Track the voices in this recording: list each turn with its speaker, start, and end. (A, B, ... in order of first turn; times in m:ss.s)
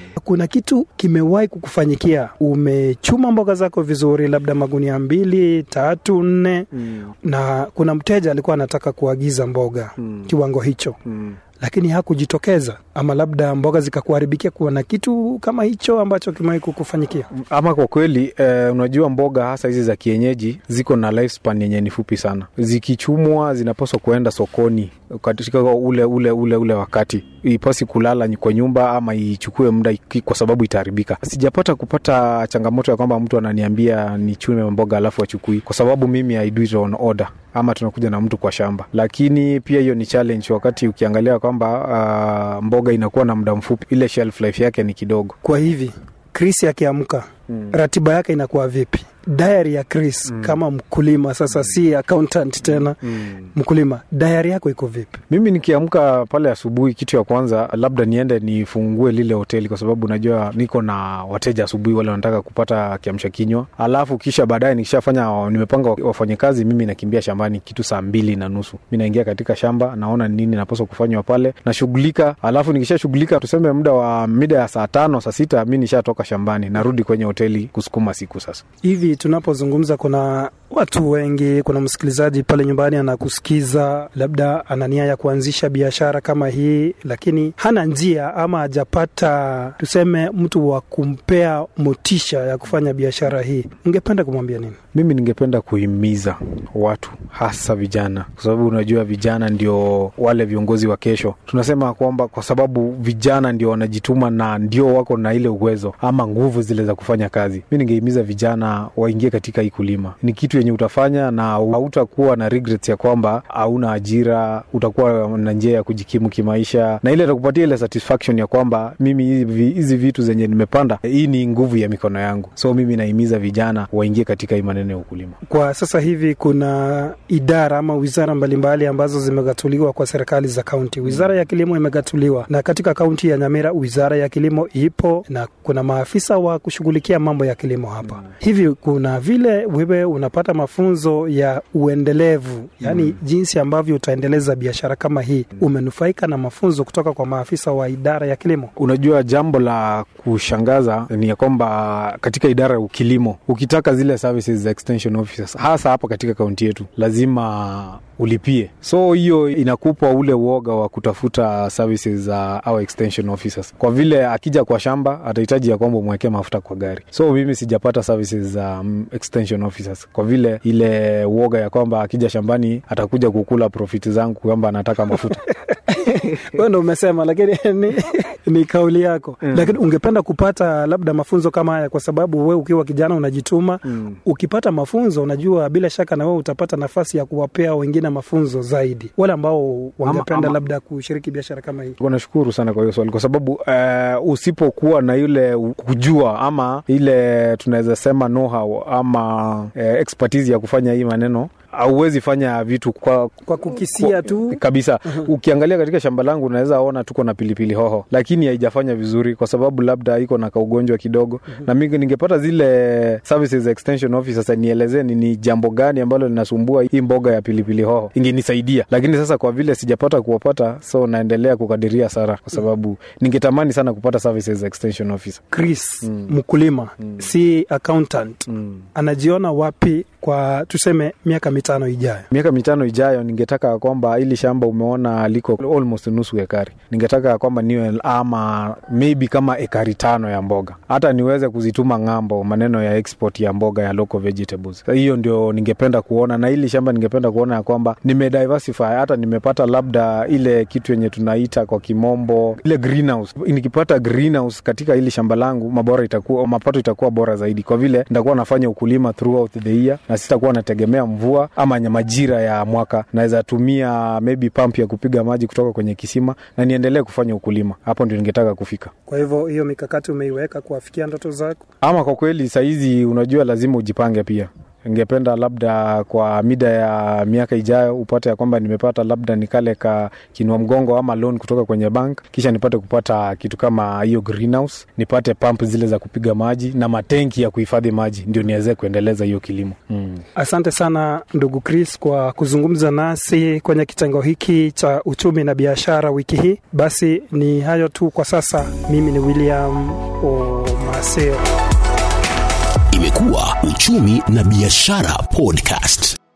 0:00.1-0:06.7 A
0:06.7-0:07.1 B
0:07.2-0:11.0 A
0:11.1-0:11.3 B
0:11.6-0:17.3 A
0:17.4-0:45.4 B
0:45.4-0:53.0 A
0:53.5-0:55.2 A
0:55.3-1:18.6 B
1:18.8-1:34.8 A
1:34.9-2:05.4 B
2:05.4-2:28.7 A
2:22.8-2:23.1 B
2:28.8-2:55.4 B
2:55.9-3:12.0 A
3:10.0-3:10.6 B
3:12.0-3:45.4 B
3:23.5-3:24.6 A
3:45.5-3:52.3 A
3:52.3-4:28.9 B
4:29.0-4:31.6 A
4:31.8-4:50.2 B
4:50.3-5:01.5 A
5:02.9-5:06.2 C